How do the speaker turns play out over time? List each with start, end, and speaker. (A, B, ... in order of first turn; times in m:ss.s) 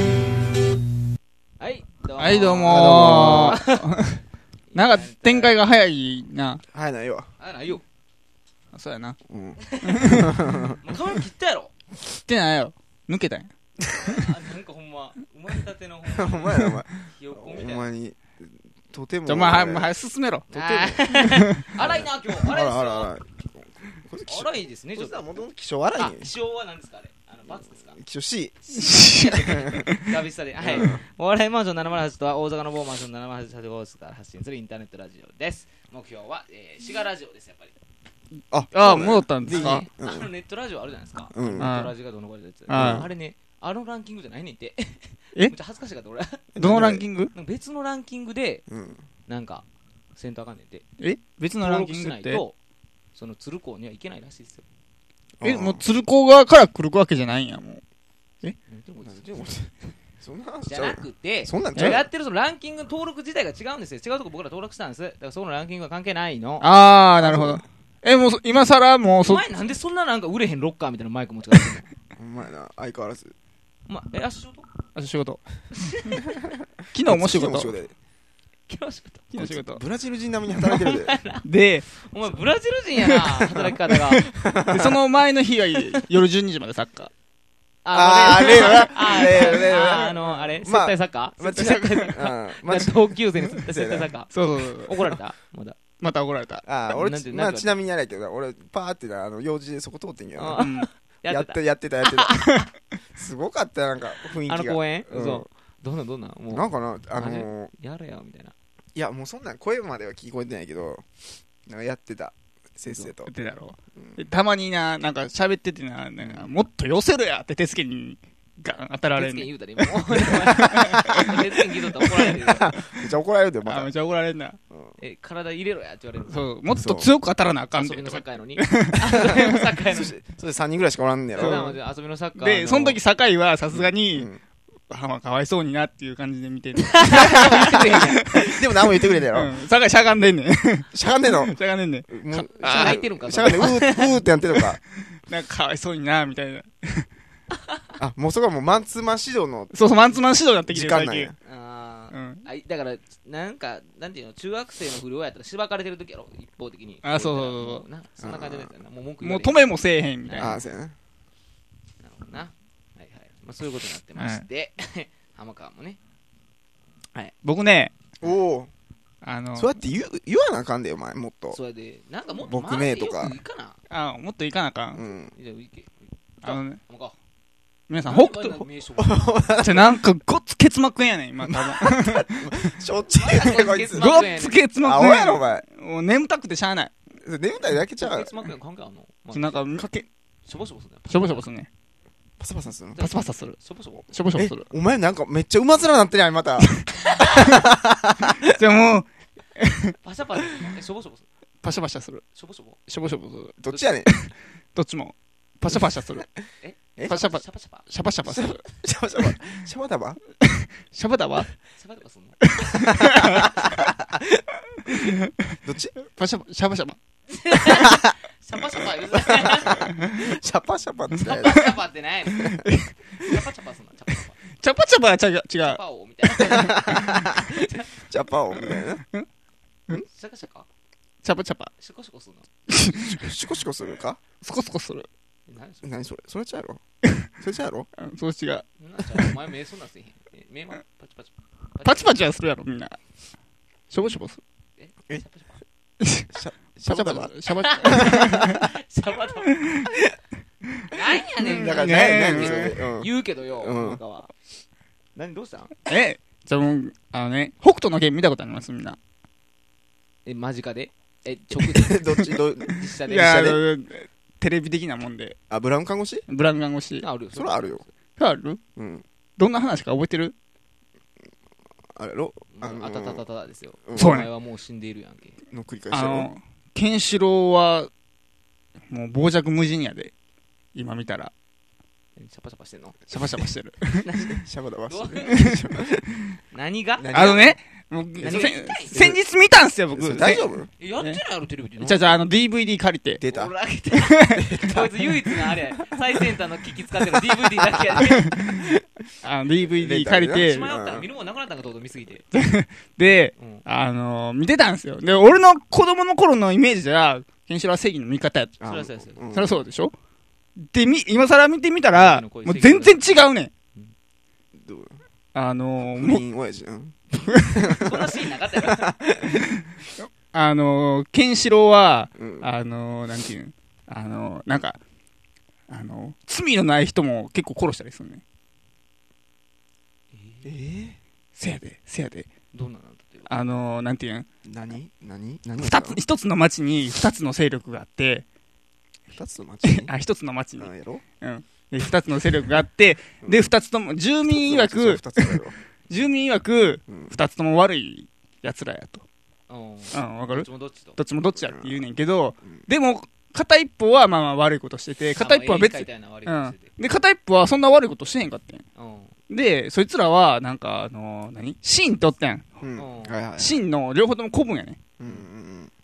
0:01.6-0:03.8 A
0:02.2-0:04.2 B
0:02.6-0:03.6 C
0:04.7-0:05.6 A
0:04.7-0:06.6 B
0:06.7-0:07.3 C
0:07.4-0:07.8 A
0:08.7-0:09.2 B
0:09.3-0:10.8 C
0:09.6-0:10.1 A
0:09.8-0:10.4 B
0:10.8-0:11.7 A
0:12.2-0:13.5 B
0:13.9-0:17.9 A
0:16.1-0:19.9 C
0:19.2-0:21.6 B
0:20.5-0:23.1 A
0:21.8-0:26.3 C
0:24.2-0:25.3 A
0:25.9-0:28.0 A
0:27.8-0:28.6 C
0:28.6-0:37.7 A
0:28.8-0:30.1 B
0:29.4-0:29.8 C
0:30.6-0:31.0 C
0:38.5-0:40.3 C
0:38.7-0:39.8 B
0:39.5-0:46.4 A
0:41.3-0:41.7 C
0:41.6-0:41.9 B
0:42.7-0:43.1 B
0:42.7-0:43.1 C
0:46.5-0:47.0 C
0:46.6-0:47.3 B
0:47.3-0:48.6 A
0:48.7-0:49.0 C
0:49.3-0:50.8 A
0:51.0-0:52.4 B
0:51.6-0:52.6 A
0:53.1-0:54.6 A
0:55.4-0:55.8 C
0:55.4-0:57.8 B
0:58.6-0:59.5 A
0:59.0-1:02.1 C
1:00.7-1:06.7 A
1:01.8-1:02.0 B
1:06.6-1:09.4 B
1:07.2-1:07.6 C
1:09.2-1:11.9 A
1:12.2-1:13.3 C
1:13.9-1:14.7 A
1:14.9-1:15.4 B
1:15.9-1:16.2 A
1:16.9-1:17.7 B
1:17.0-1:17.9 C
1:18.7-1:19.3 A
1:19.3-1:19.8 B
1:19.4-1:21.1 C
1:20.6-1:24.2 A
1:21.4-1:21.9 B
1:23.1-1:27.1 B
1:24.4-1:25.0 C
1:27.8-1:35.8 A
1:27.9-1:34.1 C
1:34.3-1:35.2 B
1:36.0-1:36.6 B
1:36.6-1:40.7 C
1:36.9-1:37.8 A
1:40.4-1:42.6 A
1:40.6-1:40.9 B
1:41.3-1:45.4 C
1:44.4-1:48.5 A
1:46.5-1:47.7 C
1:48.9-1:51.0 C
1:51.7-1:53.3 C
1:53.2-2:01.4 B
1:59.1-2:02.7 A
2:00.5-2:01.2 C
2:02.4-2:03.9 C
2:03.6-2:04.6 B
2:04.7-2:05.0 C
2:05.0-2:06.5 A
2:06.3-2:09.4 B
2:06.7-2:07.1 C
2:07.8-2:10.2 A
2:09.9-2:11.8 C
2:11.4-2:13.0 A
2:11.4-2:11.8 B
2:12.4-2:14.3 B
2:13.7-2:14.4 C
2:14.9-2:18.6 B
2:16.8-2:18.2 A
2:17.2-2:19.6 C
2:19.3-2:24.6 B
2:20.9-2:21.6 C
2:22.1-2:24.8 C
2:22.6-2:24.1 A
2:25.2-2:27.1 B
2:28.0-2:29.8 C
2:29.7-2:31.3 B
2:30.7-2:31.3 C
2:31.4-2:40.6 A
2:32.1-2:32.4 B
2:37.0-2:37.8 B
2:38.2-2:38.7 C
2:39.2-2:40.6 B
2:40.4-2:40.9 C
2:42.0-2:46.0 A
2:44.2-2:44.4 B
2:47.4-2:47.9 B
2:48.2-2:48.7 C
2:49.2-2:49.8 B
2:49.6-2:51.6 C
2:51.5-2:53.8 A
2:52.4-2:53.4 C
2:53.9-2:55.0 B
2:54.9-2:55.3 C
2:55.3-2:57.1 A
2:56.4-2:56.8 B
2:57.9-2:58.6 B
2:58.0-2:59.6 A
2:59.0-3:00.0 C
2:59.6-3:02.5 B
3:01.4-3:04.3 C
3:03.2-3:04.6 A
3:03.9-3:06.9 B
3:04.8-3:05.6 C
3:07.2-3:08.3 C
3:08.0-3:09.9 A
3:09.3-3:10.0 B
3:10.4-3:11.4 A
3:11.1-3:11.7 B
3:12.4-3:13.1 C
3:13.0-3:14.1 A
3:13.0-3:13.6 B
3:14.1-3:14.7 B
3:14.3-3:18.5 C
3:18.4-3:20.0 B
3:20.0-3:21.2 A
3:21.6-3:22.2 B
3:22.3-3:22.8 A
3:22.9-3:26.3 B
3:23.6-3:24.1 C
3:26.6-3:27.9 A
3:27.0-3:28.6 B
3:28.2-3:30.2 C
3:30.4-3:31.5 B
3:31.7-3:32.9 A
3:32.4-3:33.8 B
3:33.2-3:33.7 C
3:34.9-3:35.3 B
3:35.6-3:35.9 C
3:36.0-3:37.0 B
3:37.3-3:39.9 A
3:39.3-3:41.7 C
3:39.8-3:40.2 B
3:41.2-3:42.6 A
3:41.3-3:41.7 B
3:42.4-3:43.4 B
3:43.2-3:44.4 A
3:44.6-3:45.8 B
3:45.6-3:47.9 A
3:46.4-3:47.4 C
3:46.5-3:47.3 B
3:48.1-3:49.0 C
3:48.7-3:49.2 B
3:50.1-3:50.7 A
3:51.2-3:51.7 B
3:51.8-3:52.4 A
3:52.7-3:53.2 B
3:53.0-3:54.2 C
3:54.4-3:55.1 B
3:55.5-3:55.9 A
3:55.8-3:56.8 C
3:57.4-3:57.9 C
3:58.0-3:58.6 B
3:58.8-4:02.2 A
4:01.8-4:03.0 B
4:03.9-4:04.4 B
4:04.8-4:05.6 A
4:06.0-4:06.3 B
4:06.3-4:08.6 C
4:06.8-4:08.6 B
4:07.6-4:09.6 A
4:10.9-4:14.3 A
4:11.4-4:12.8 B
4:11.4-4:14.0 C
4:15.1-4:15.8 A
4:15.9-4:19.0 B
4:20.2-4:22.1 A
4:21.6-4:23.6 C
4:22.7-4:23.4 A
4:23.0-4:25.4 B
4:25.5-4:26.2 C
4:26.3-4:27.0 B
4:27.0-4:27.9 A
4:27.4-4:27.8 C
4:28.2-4:28.6 B
4:28.8-4:29.0 C
4:29.4-4:30.3 B
4:31.9-4:33.2 C
4:32.5-4:35.4 A
4:33.9-4:34.1 C
4:34.0-4:34.3 B
4:35.5-4:36.3 C
4:35.9-4:37.9 B
4:38.9-4:40.1 B
4:40.7-4:41.3 B
4:42.2-4:43.0 A
4:43.1-4:44.1 B
4:44.0-4:45.3 A
4:44.2-4:46.2 C
4:46.5-4:47.4 A
4:47.0-4:47.6 C
4:47.1-4:50.5 B
4:48.2-4:49.1 A
4:48.2-4:49.2 C
4:49.9-4:50.7 C
4:50.8-4:52.2 A
4:51.8-4:53.2 B
4:53.2-4:53.5 C
4:53.2-4:58.4 A
4:53.9-4:54.6 B
4:54.3-4:55.0 C
4:58.0-4:58.6 B
4:58.4-4:58.8 C
4:59.2-5:00.7 B
4:59.7-5:01.1 C
5:00.4-5:02.2 A
5:02.3-5:08.6 B
5:03.4-5:03.6 A
5:08.6-5:09.5 C
5:08.6-5:09.2 A
5:09.3-5:09.9 B
5:10.7-5:13.5 B
5:11.9-5:13.9 A
5:14.6-5:15.0 C
5:15.3-5:16.2 B
5:15.8-5:19.4 C
5:17.8-5:18.9 A
5:20.3-5:24.8 B
5:22.2-5:22.5 C
5:25.7-5:28.2 B
5:30.1-5:30.5 A
5:30.4-5:31.0 C
5:31.4-5:32.3 B
5:32.5-5:33.3 A
5:33.3-5:34.2 B
5:34.4-5:36.0 C
5:35.6-5:38.2 B
5:39.1-5:39.9 C
5:39.6-5:49.0 B
5:40.6-5:41.0 C
5:43.2-5:43.5 C
5:44.3-5:45.5 C
5:46.9-5:47.2 C
5:49.5-5:51.0 A
5:49.9-5:58.6 B
5:51.4-5:51.8 C
5:55.2-5:56.7 A
5:58.8-5:59.1 A
5:59.3-6:02.6 B
6:02.6-6:03.6 C
6:02.8-6:03.2 A
6:03.4-6:04.8 B
6:05.0-6:05.7 C